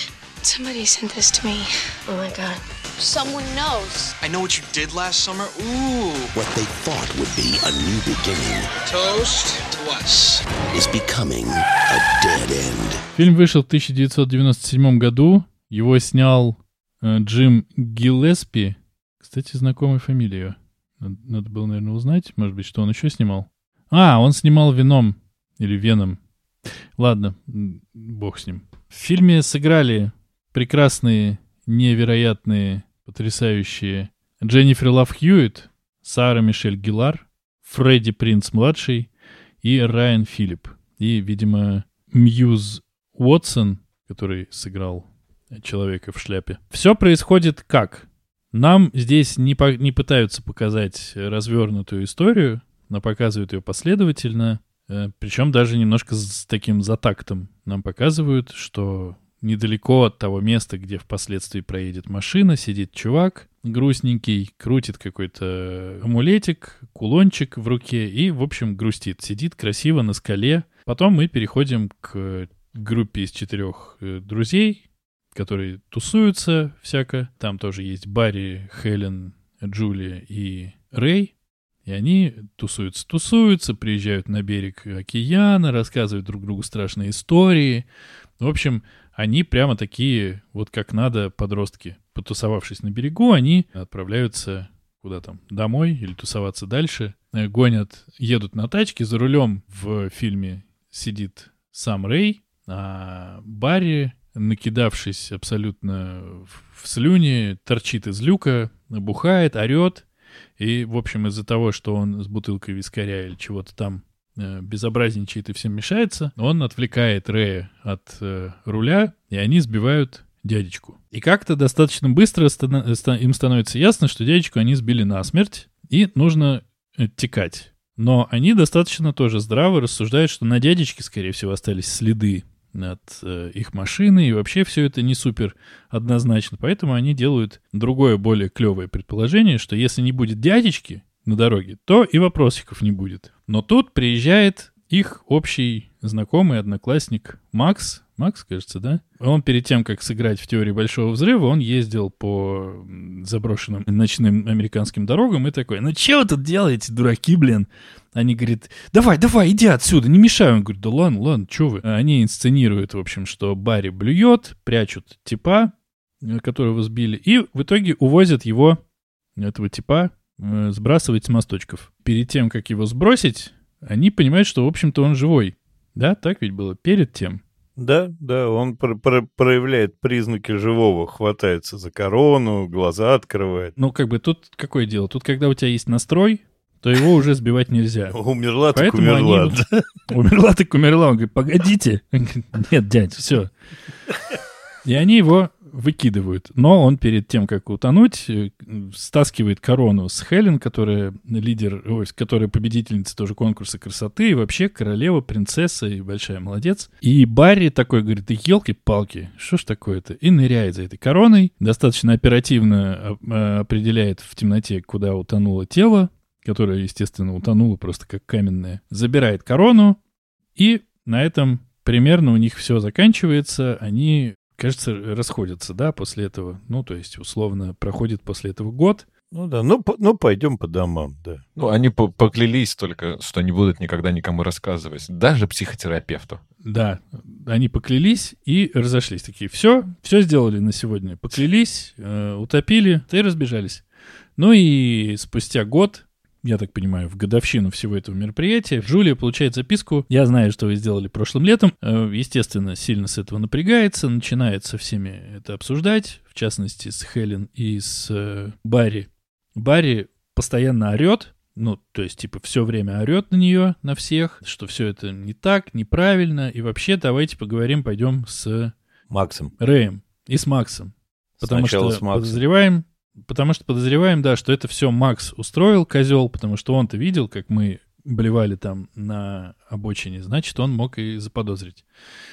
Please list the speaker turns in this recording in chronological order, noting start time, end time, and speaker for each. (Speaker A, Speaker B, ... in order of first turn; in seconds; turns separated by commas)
Speaker A: 0.4-4.1, Speaker B: 4.2-6.3, Speaker C: 6.3-8.7, Speaker B: 8.8-10.4, Speaker C: 10.7-13.0, Speaker D: 13.1-26.2, Speaker D: 27.0-39.1, Speaker D: 39.6-81.3, Speaker D: 81.8-87.9, Speaker D: 88.4-110.0, Speaker D: 110.6-168.8, Speaker D: 169.4-177.4, Speaker E: 177.8-183.8, Speaker D: 183.8-188.2, Speaker E: 188.1-189.8, Speaker D: 188.7-193.5, Speaker D: 194.8-220.0, Speaker D: 220.6-229.0, Speaker E: 229.3-231.4, Speaker F: 231.6-236.4, Speaker D: 236.6-243.8, Speaker D: 244.4-268.7, Speaker E: 269.1-269.5, Speaker D: 269.6-281.8, Speaker E: 271.4-272.4